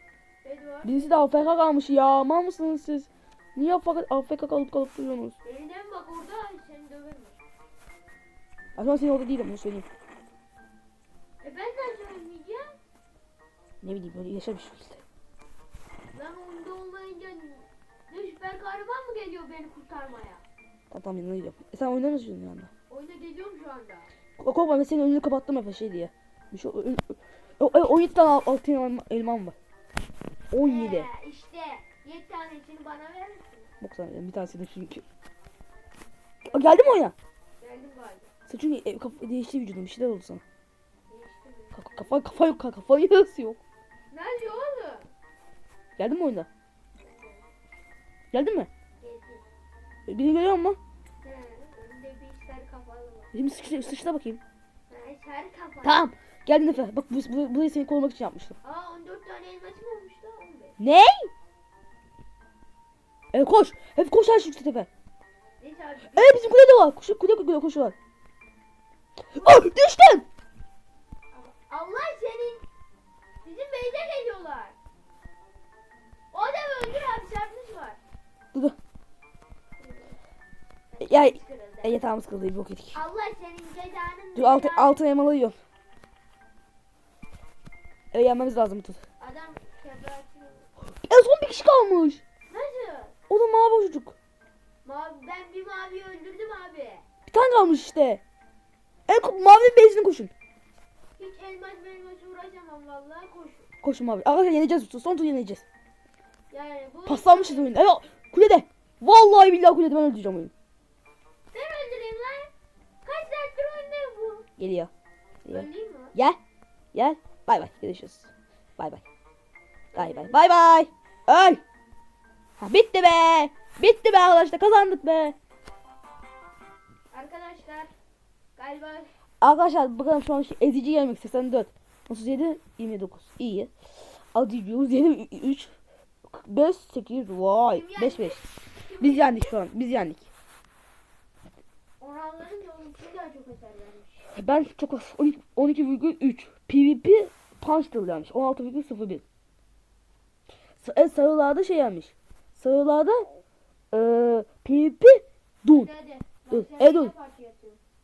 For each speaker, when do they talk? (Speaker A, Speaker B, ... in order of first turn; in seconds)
Speaker A: 0.4-1.6, 5.4-7.4, 11.4-12.8, 16.1-20.4, 22.9-24.1, 30.6-33.7, 36.4-36.9, 37.6-38.3, 41.1-42.1, 44.1-45.1, 47.0-47.5, 49.0-49.4, 51.2-53.3, 54.9-56.1, 58.6-60.8, 65.6-66.5, 69.3-69.6, 71.3-72.7, 73.4-74.8, 76.3-78.0, 79.7-80.2, 80.9-82.0, 82.9-85.0, 89.2-90.7, 92.5-93.2, 94.8-97.0, 101.2-103.7, 106.5-107.8, 111.5-112.5, 113.0-114.5, 115.5-116.2, 119.9-120.5, 127.1-127.9, 128.6-129.1, 137.7-139.6, 142.0-144.3, 155.7-157.8
Speaker B: 0.8-5.4, 8.8-9.8, 13.8-15.0, 20.9-22.7, 24.4-29.6, 30.5-31.1, 33.8-35.0, 36.4-37.1, 38.5-40.4, 41.7-43.6, 46.0-46.5, 48.3-48.7, 50.1-50.8, 53.3-54.4, 55.8-58.6, 60.8-61.3, 63.3-64.9, 66.1-67.9, 69.3-70.2, 81.0-83.0, 84.3-85.6, 88.1-89.0, 90.9-92.2, 93.3-94.1, 97.3-98.2, 99.1-100.3, 103.8-105.6, 107.0-110.5, 114.6-114.9, 115.4-116.4, 116.9-119.0, 119.9-121.6, 122.6-125.3, 129.4-133.7, 134.3-135.7, 136.3-138.4, 139.0-140.3, 144.3-149.2, 150.8-153.3, 153.9-155.9, 156.5-157.1